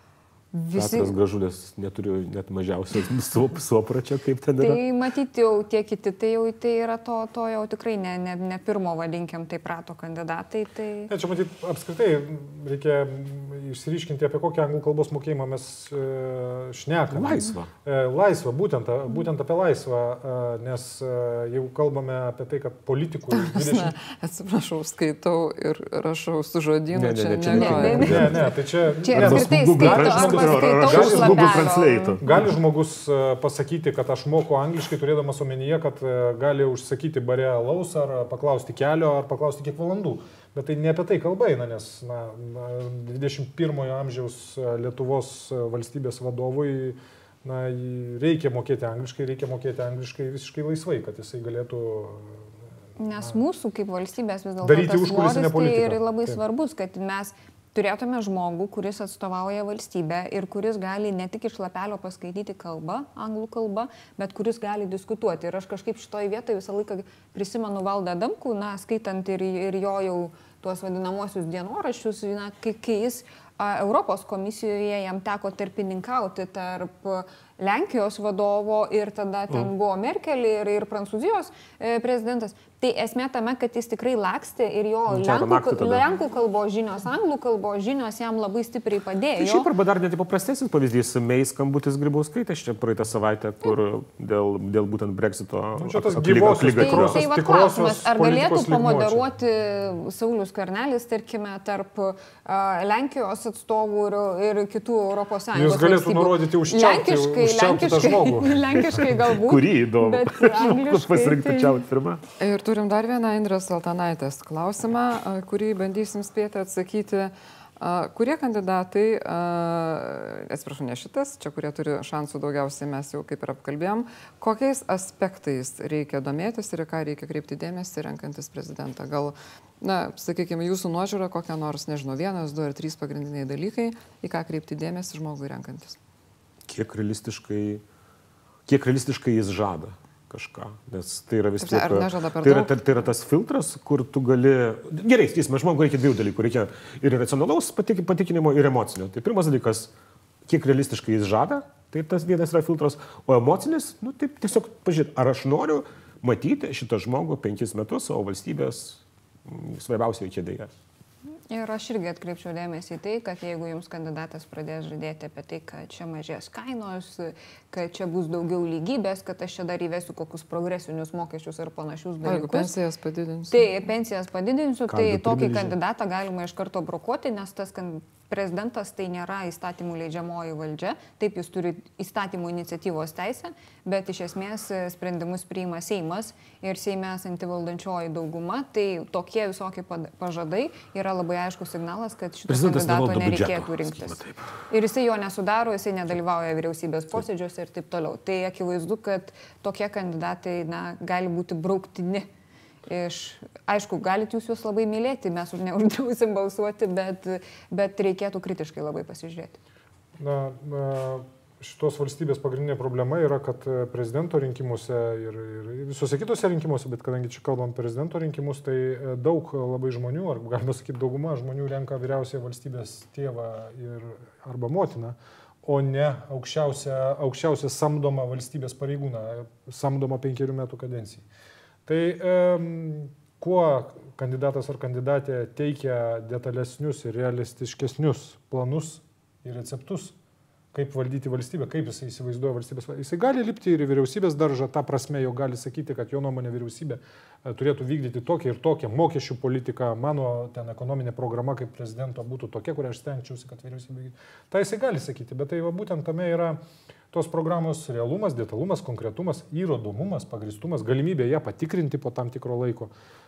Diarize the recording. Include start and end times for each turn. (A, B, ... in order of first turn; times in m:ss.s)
0:00.5-0:01.1 A
0:00.7-0:04.8 B
0:04.6-0:11.1 A
0:11.1-0:24.0 C
0:17.1-0:17.7 B
0:23.4-0:28.3 D
0:26.9-0:28.4 B
0:27.5-0:32.2 A
0:27.9-0:31.6 C
0:29.1-0:32.4 B
0:32.2-0:52.6 C
0:53.0-1:29.7 A
0:54.6-0:56.4 C
1:25.1-1:26.0 B
1:29.4-1:37.2 B
1:35.8-1:39.2 C
1:36.7-1:51.8 A
1:45.5-1:48.6 C
1:48.9-1:52.2 B
1:52.4-2:16.0 D
2:16.7-2:17.8 B
2:18.7-2:29.9 B
2:21.6-2:22.8 D
2:30.5-2:40.7 B
2:41.5-2:52.7 A
2:52.2-2:53.7 D
2:53.5-3:22.3 A
2:54.9-2:55.7 B
3:12.5-3:14.4 B
3:22.9-3:29.6 A
3:30.2-3:51.2 C
3:51.8-4:00.2 C
4:00.7-4:16.6 C
4:17.1-4:22.9 C